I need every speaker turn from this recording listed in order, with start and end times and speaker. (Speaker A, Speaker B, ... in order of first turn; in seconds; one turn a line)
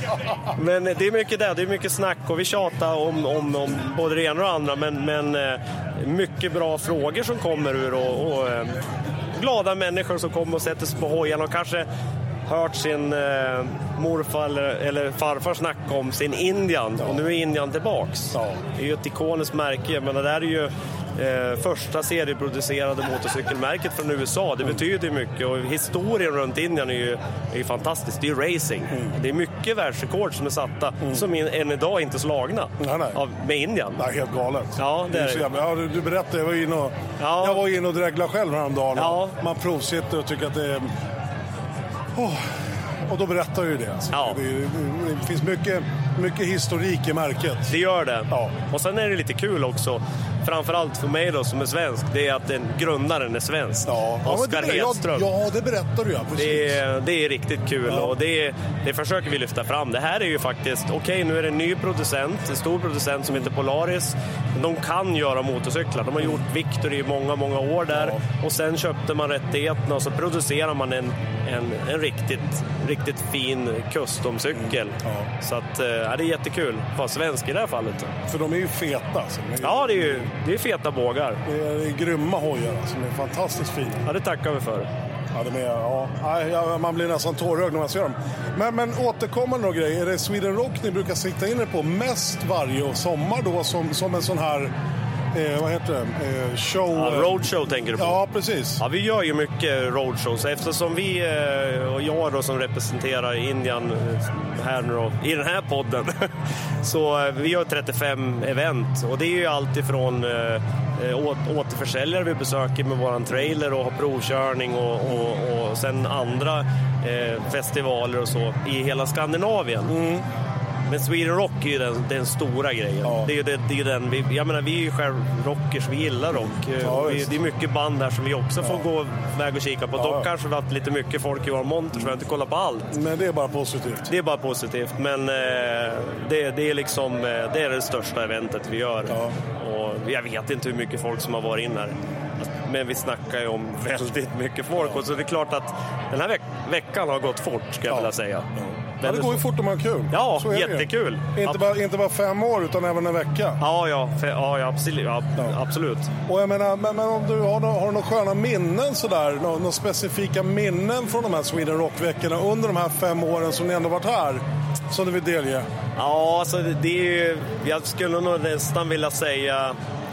Speaker A: 0.6-8.8
Speaker A: 9.4-11.9
Speaker A: 12.5-34.0
Speaker B: 17.0-17.3
Speaker B: 18.3-18.6
Speaker B: 31.0-31.3
Speaker B: 32.8-33.2
Speaker B: 34.0-40.9
Speaker A: 34.8-35.5
Speaker A: 37.2-37.6
Speaker A: 39.0-39.3
Speaker B: 42.2-42.5
Speaker B: 43.1-47.8
Speaker A: 44.1-44.4
Speaker A: 47.7-55.3
Speaker B: 48.3-48.6
Speaker B: 53.9-56.8
Speaker A: 56.4-78.1
Speaker B: 57.9-58.2
Speaker B: 67.9-68.2
Speaker B: 74.5-75.3
Speaker B: 78.3-80.3
Speaker A: 79.6-81.4
Speaker B: 81.5-84.0
Speaker A: 84.0-84.9
Speaker B: 85.3-94.7
Speaker B: 95.3-98.8
Speaker A: 96.9-98.2
Speaker A: 98.8-106.3
Speaker A: 106.8-119.9
Speaker B: 115.1-115.3
Speaker B: 119.9-120.2
Speaker A: 120.9-132.9
Speaker B: 123.0-123.3
Speaker B: 126.3-127.3
Speaker B: 128.6-128.9
Speaker B: 130.0-130.3
Speaker B: 132.9-134.1
Speaker A: 134.1-148.5
Speaker B: 139.1-139.3
Speaker B: 147.9-153.6
Speaker A: 149.0-149.4
Speaker A: 150.1-151.6
Speaker A: 153.6-156.1
Speaker B: 156.3-165.7
Speaker A: 166.0-169.8